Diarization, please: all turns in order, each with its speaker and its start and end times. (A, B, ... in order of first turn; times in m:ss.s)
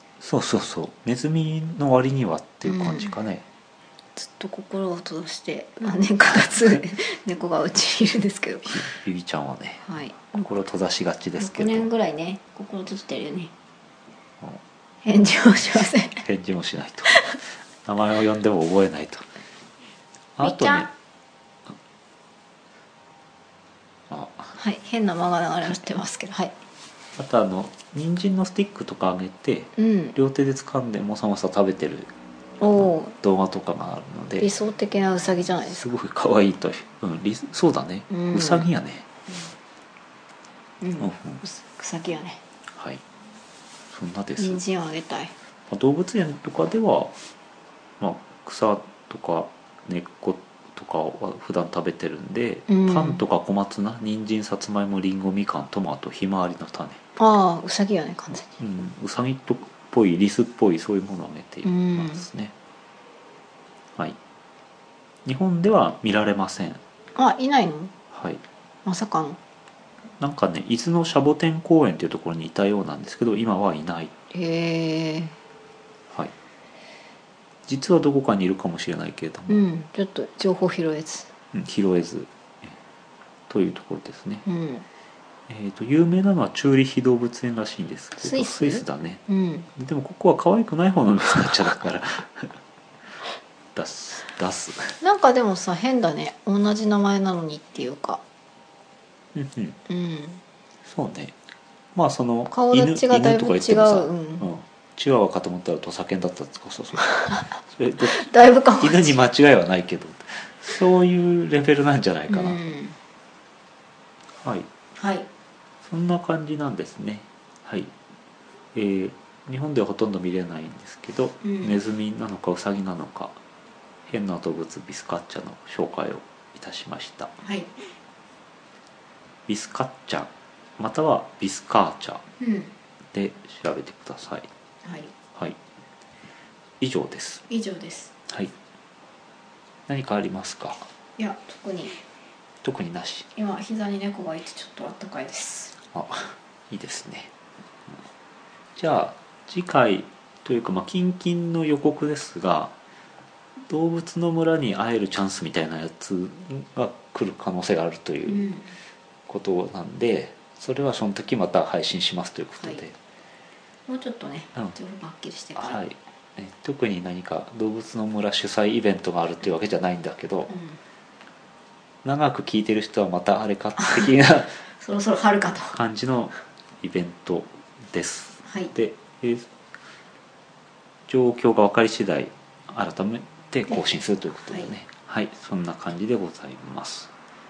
0:00.2-0:03.4 A
0:02.6-0:03.1 B
0:04.2-0:08.9 B
0:08.6-0:11.9 A
0:09.8-0:10.4 B
0:11.4-0:13.5 B
0:15.0-0:16.2 B
0:15.7-0:17.2 A
0:17.1-0:17.4 B
0:17.8-0:19.3 A
0:20.4-0:20.9 A
0:20.4-0:20.9 B
0:24.1-0:24.5 A
0:24.5-0:26.6 B
0:27.2-0:32.1 A
0:29.8-0:30.1 B
0:32.6-0:33.2 B
0:32.8-0:34.5 A
0:34.4-0:35.9 B
0:35.6-0:39.1 A
0:38.1-0:38.7 B
0:40.8-0:42.4 B
0:41.0-0:41.4 A
0:42.7-0:43.0 A
0:43.9-0:44.6 A
0:44.4-0:45.3 B
0:45.7-0:47.1 A
0:48.0-0:57.0 A
0:52.7-0:53.2 B
0:57.2-0:58.6 B
0:58.6-1:02.5 A
1:01.6-1:02.2 B
1:05.2-1:06.8 A
1:07.1-1:07.9 B
1:08.1-1:08.4 A
1:08.8-1:09.4 B
1:10.2-1:14.1 A
1:14.3-1:15.4 B
1:17.6-1:19.6 A
1:19.5-1:21.3 B
1:21.5-1:22.7 A
1:23.5-1:24.4 A
1:24.4-1:24.8 B
1:25.5-1:29.2 A
1:28.2-1:29.7 B
1:29.8-1:32.6 A
1:33.7-1:35.0 A
1:35.0-1:38.2 B
1:39.3-1:39.8 A
1:39.9-1:40.4 B
1:40.8-1:41.4 A
1:41.9-1:52.6 A
1:42.5-1:44.5 B
1:48.0-1:49.2 B
1:52.3-1:53.0 B
1:54.4-1:54.7 A
1:54.9-1:55.3 B
1:55.8-1:57.9 A
1:58.7-2:03.4 A
2:01.4-2:01.8 B
2:04.0-2:07.3 A
2:07.4-2:07.7 B
2:09.5-2:12.2 A
2:12.4-2:12.7 B
2:13.1-2:14.5 A
2:14.8-2:15.1 B
2:16.8-2:17.4 A
2:17.5-2:18.1 B
2:18.3-2:18.5 A
2:19.9-2:20.9 A
2:21.2-2:22.0 B
2:22.6-2:23.3 A
2:23.3-2:25.8 B
2:25.9-2:27.3 A
2:28.8-2:32.7 A
2:33.7-2:38.4 A
2:38.2-2:38.7 B
2:39.3-2:43.0 A
2:43.9-2:45.8 B
2:45.6-2:50.5 A
2:50.5-2:50.8 B
2:52.0-2:54.6 A
2:53.8-2:54.0 B
2:54.8-2:55.8 B
2:55.7-2:59.5 A
2:58.4-2:58.7 B
3:01.1-3:07.1 A